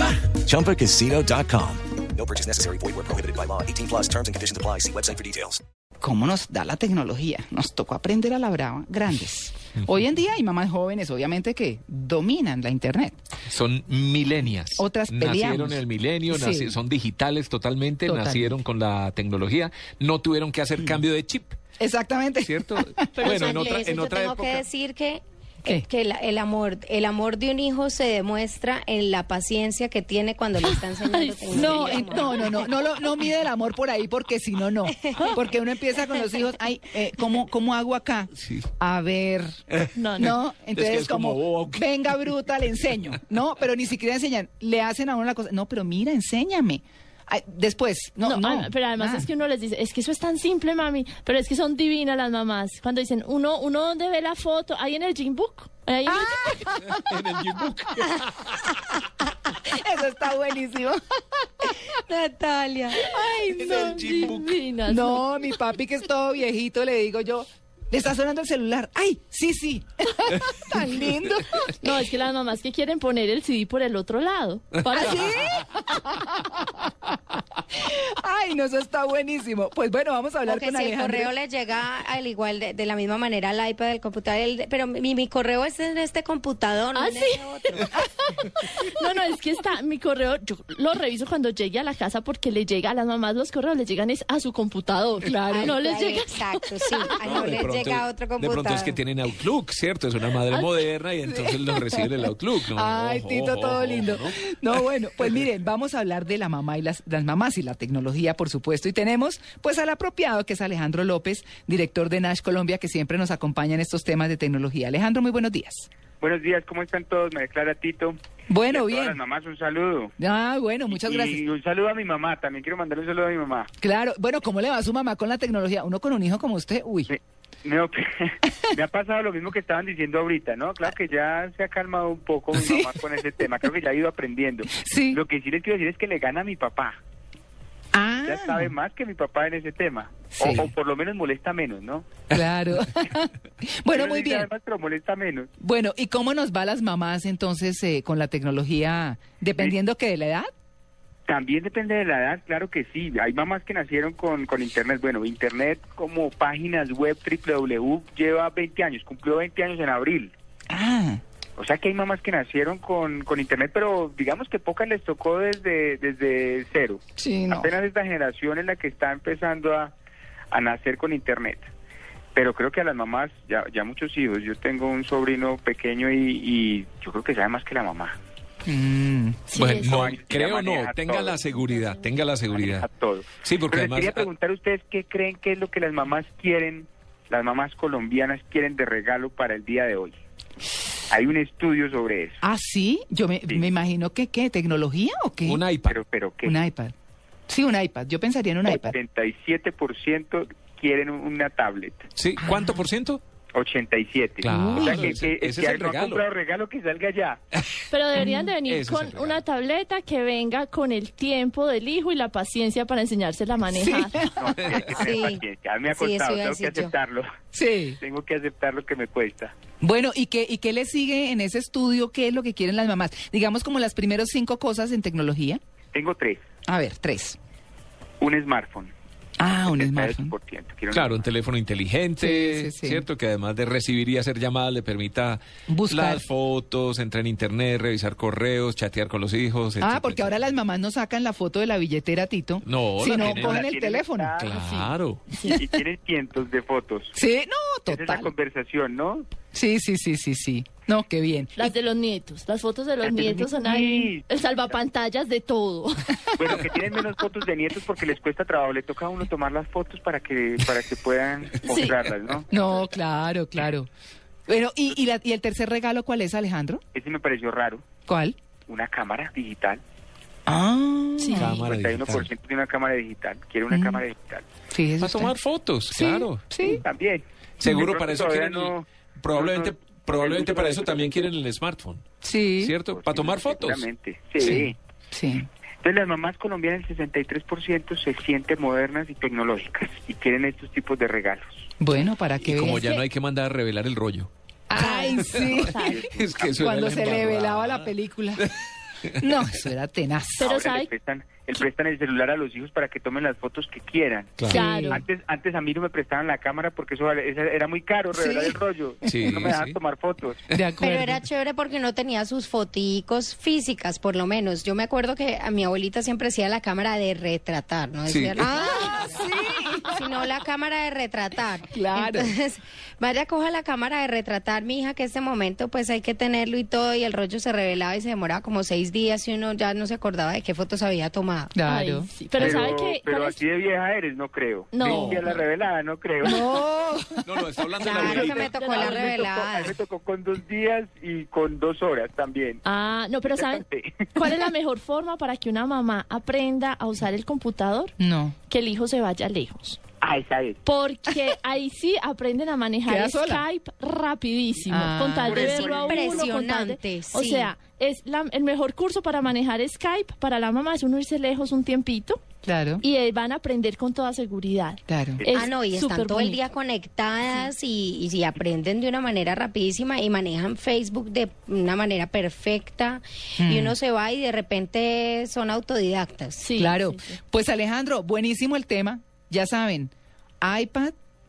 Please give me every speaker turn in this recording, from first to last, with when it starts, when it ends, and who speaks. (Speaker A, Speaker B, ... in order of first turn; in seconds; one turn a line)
Speaker A: 0.3-5.6
Speaker B: 6.0-13.2
Speaker C: 13.5-21.6
Speaker B: 14.8-16.7
Speaker B: 18.0-18.5
Speaker B: 21.8-23.3
Speaker C: 22.4-24.6
Speaker D: 23.2-32.5
Speaker E: 23.2-23.9
Speaker E: 30.6-32.7
Speaker B: 31.5-38.3
Speaker C: 38.4-38.7
Speaker B: 38.8-39.6
Speaker E: 39.9-40.4
Speaker B: 40.2-49.3
Speaker C: 40.8-41.8
Speaker E: 48.2-56.7
Speaker B: 56.1-57.0
Speaker C: 56.8-58.8
Speaker B: 59.6-61.0
Speaker D: 61.9-63.2
Speaker E: 63.1-65.3
Speaker B: 63.3-63.9
Speaker C: 63.6-64.5
Speaker B: 64.8-71.9
Speaker E: 71.7-75.3
Speaker B: 74.9-77.2
Speaker B: 77.7-81.3
Speaker D: 80.5-87.8
Speaker E: 86.9-97.1
Speaker B: 95.2-95.8
Speaker D: 95.5-99.0
Speaker C: 97.2-104.4
Speaker E: 100.5-100.8
Speaker B: 101.3-115.9
Speaker F: 116.2-118.2
Speaker B: 118.5-119.2
Speaker F: 118.7-120.1
Speaker B: 120.2-121.4
Speaker F: 120.9-123.7
Speaker B: 123.8-127.1
Speaker F: 127.1-137.0
Speaker B: 132.5-133.0
Speaker B: 134.7-135.2
Speaker B: 137.9-138.7
Speaker F: 138.2-142.1
Speaker B: 140.4-140.7
Speaker B: 142.3-144.5
Speaker F: 143.9-145.5
Speaker B: 145.6-150.5
Speaker F: 151.3-160.3
Speaker B: 160.7-161.2
Speaker F: 161.6-169.9
Speaker B: 167.2-167.7
Speaker F: 170.5-171.7
Speaker F: 172.3-178.2
Speaker B: 178.7-179.4
Speaker E: 179.5-180.1
Speaker C: 179.5-182.8
Speaker F: 179.8-181.5
Speaker F: 182.5-190.1
Speaker C: 183.4-184.3
Speaker F: 191.1-192.4
Speaker B: 192.4-195.6
Speaker C: 195.4-196.0
Speaker F: 195.8-196.6
Speaker B: 196.4-196.9
Speaker B: 197.5-199.0
Speaker F: 198.7-202.1
Speaker C: 202.2-203.2
Speaker B: 202.4-202.8
Speaker F: 203.5-207.4
Speaker C: 204.4-206.2
Speaker E: 204.5-205.0
Speaker E: 207.9-214.2
Speaker C: 208.7-209.4
Speaker B: 213.7-214.4
Speaker F: 214.2-217.3
Speaker D: 214.7-216.9
Speaker B: 217.5-218.0
Speaker F: 218.0-219.5
Speaker B: 219.8-225.6
Speaker F: 225.9-226.4
Speaker B: 226.7-227.4
Speaker F: 228.2-228.9
Speaker B: 229.4-230.3
Speaker F: 229.6-231.3
Speaker C: 230.9-240.3
Speaker B: 232.2-233.0
Speaker B: 235.7-236.2
Speaker B: 239.8-244.3
Speaker C: 242.6-243.6
Speaker F: 243.1-244.6
Speaker C: 244.4-245.3
Speaker E: 244.5-245.6
Speaker F: 245.4-247.1
Speaker B: 247.1-248.3
Speaker F: 247.9-249.3
Speaker B: 249.5-251.7
Speaker E: 251.6-256.2
Speaker F: 253.0-254.7
Speaker F: 256.4-262.7
Speaker E: 261.6-262.0
Speaker B: 262.5-263.9
Speaker B: 264.5-266.8
Speaker F: 266.9-267.8
Speaker B: 268.1-268.4
Speaker F: 268.7-269.8
Speaker B: 270.5-271.6
Speaker E: 271.2-271.6
Speaker C: 271.4-272.3
Speaker F: 271.5-274.5
Speaker B: 273.7-274.0
Speaker B: 274.7-275.3
Speaker C: 275.0-276.4
Speaker B: 275.9-276.8
Speaker F: 276.6-281.3
Speaker C: 277.6-282.1
Speaker B: 282.2-282.7
Speaker C: 282.6-283.8
Speaker F: 282.9-284.8
Speaker B: 284.4-285.5
Speaker F: 285.8-291.7
Speaker B: 291.8-292.9
Speaker C: 292.4-294.3
Speaker B: 294.7-296.0
Speaker E: 294.7-296.0
Speaker F: 295.7-296.9
Speaker C: 296.1-298.5
Speaker B: 296.6-298.4
Speaker B: 299.2-300.4
Speaker E: 300.4-300.9
Speaker F: 300.4-310.5
Speaker C: 304.4-304.7
Speaker E: 304.5-305.0
Speaker B: 304.6-305.0
Speaker C: 309.1-309.8
Speaker B: 310.5-311.2
Speaker D: 310.8-331.5
Speaker C: 318.1-318.4
Speaker B: 318.4-319.9
Speaker B: 321.7-322.3
Speaker B: 331.5-332.1
Speaker E: 331.6-333.4
Speaker F: 332.4-336.4
Speaker E: 334.7-335.4
Speaker C: 334.8-335.3
Speaker B: 336.2-337.4
Speaker C: 337.2-338.6
Speaker D: 337.8-339.8
Speaker E: 337.9-339.2
Speaker F: 338.0-342.6
Speaker E: 342.6-343.6
Speaker F: 343.3-344.0
Speaker E: 344.1-347.9
Speaker B: 348.0-348.4
Speaker E: 348.5-349.8
Speaker F: 350.0-350.6
Speaker E: 350.6-362.2
Speaker B: 352.9-353.4
Speaker B: 354.7-355.6
Speaker D: 355.2-357.5
Speaker F: 355.6-356.2
Speaker B: 362.4-362.8
Speaker E: 362.8-366.4
Speaker B: 364.9-365.2
Speaker D: 365.3-376.4
Speaker B: 373.4-373.8
Speaker E: 376.4-377.2
Speaker B: 376.6-379.9
Speaker B: 380.4-380.9